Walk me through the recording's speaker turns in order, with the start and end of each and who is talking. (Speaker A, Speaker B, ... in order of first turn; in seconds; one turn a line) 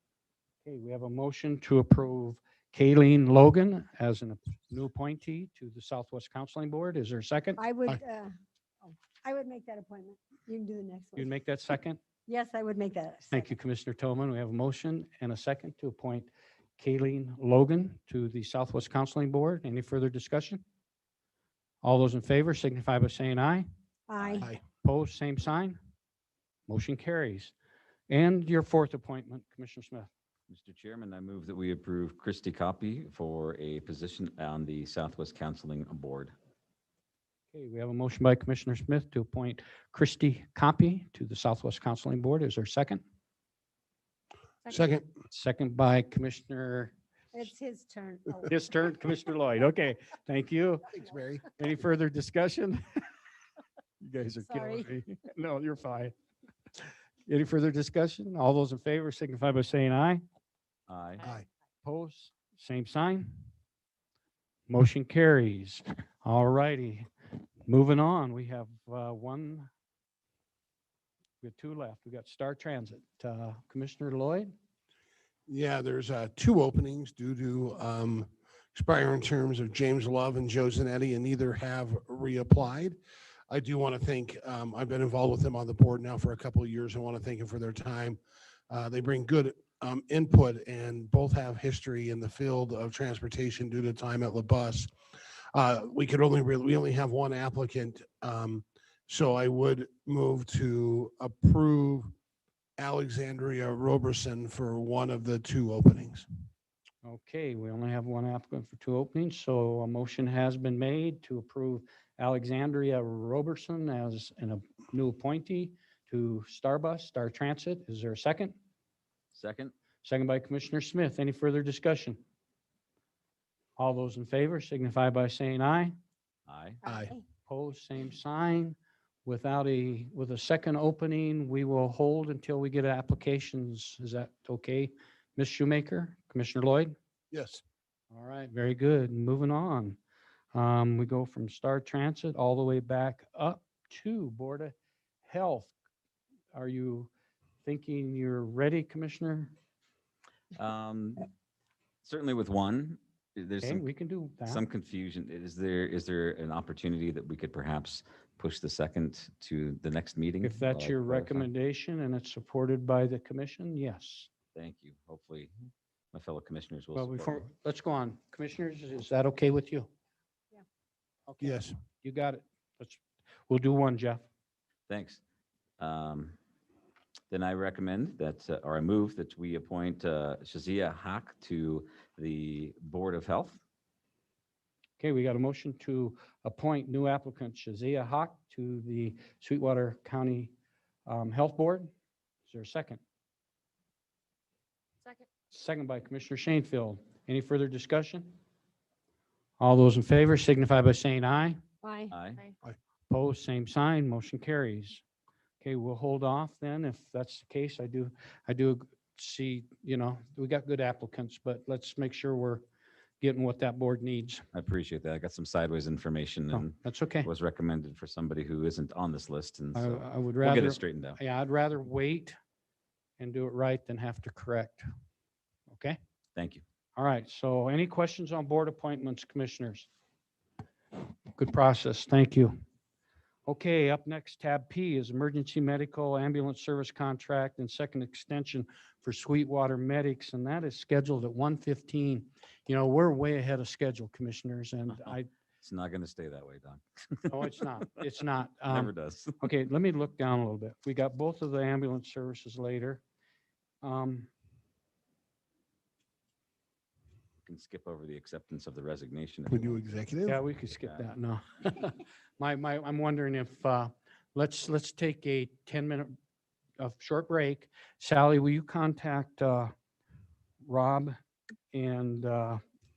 Speaker A: 0.7-7.6
Speaker B: 7.6-8.3
Speaker B: 8.8-11.3
Speaker A: 11.2-12.0
Speaker B: 12.3-13.5
Speaker A: 13.3-20.6
Speaker A: 21.8-23.7
Speaker B: 24.1-24.5
Speaker A: 24.6-25.8
Speaker A: 26.7-27.5
Speaker A: 28.1-30.1
Speaker C: 30.5-36.3
Speaker A: 37.5-43.0
Speaker D: 44.7-45.1
Speaker A: 45.3-46.9
Speaker B: 47.3-48.5
Speaker A: 48.5-53.1
Speaker D: 50.9-51.4
Speaker A: 54.0-56.1
Speaker B: 54.4-54.9
Speaker A: 57.3-60.2
Speaker C: 60.9-61.3
Speaker A: 61.8-63.4
Speaker A: 64.7-67.1
Speaker A: 67.7-69.7
Speaker A: 71.4-74.5
Speaker D: 75.5-83.0
Speaker D: 83.5-88.2
Speaker D: 88.7-94.9
Speaker D: 95.5-102.1
Speaker D: 102.8-106.3
Speaker A: 107.0-118.5
Speaker C: 119.3-119.7
Speaker A: 120.0-122.2
Speaker A: 123.8-125.9
Speaker C: 126.5-126.8
Speaker B: 126.8-127.2
Speaker D: 126.9-127.2
Speaker A: 127.5-136.9
Speaker D: 137.3-137.6
Speaker A: 138.1-140.0
Speaker A: 140.5-145.7
Speaker A: 146.5-147.1
Speaker A: 147.7-149.5
Speaker C: 150.5-151.3
Speaker C: 152.0-153.9
Speaker A: 153.6-154.7
Speaker C: 154.5-161.5
Speaker A: 160.4-164.3
Speaker C: 164.6-165.5
Speaker C: 166.1-167.4
Speaker A: 166.9-169.9
Speaker A: 171.3-174.3
Speaker D: 171.4-171.8
Speaker C: 174.9-175.2
Speaker C: 175.8-176.4
Speaker C: 177.3-183.6
Speaker A: 185.0-190.5
Speaker A: 191.1-191.9
Speaker A: 192.5-193.0
Speaker A: 195.5-198.3
Speaker A: 199.6-201.6
Speaker B: 201.8-202.1
Speaker C: 202.1-202.4
Speaker A: 203.1-205.0
Speaker A: 205.6-212.6
Speaker A: 213.2-214.4
Speaker C: 214.5-221.2
Speaker A: 216.5-217.3
Speaker A: 219.8-222.4
Speaker A: 223.2-224.9
Speaker A: 225.7-226.0
Speaker C: 226.3-226.6
Speaker A: 227.0-229.9
Speaker A: 231.3-232.6
Speaker A: 233.5-245.3
Speaker C: 245.6-247.7
Speaker A: 247.3-253.0
Speaker C: 248.7-249.4
Speaker A: 253.8-254.3
Speaker C: 257.4-259.8
Speaker D: 259.5-260.4
Speaker A: 260.2-266.1
Speaker C: 260.8-261.1
Speaker A: 266.8-269.7
Speaker A: 270.6-271.2
Speaker A: 271.7-272.6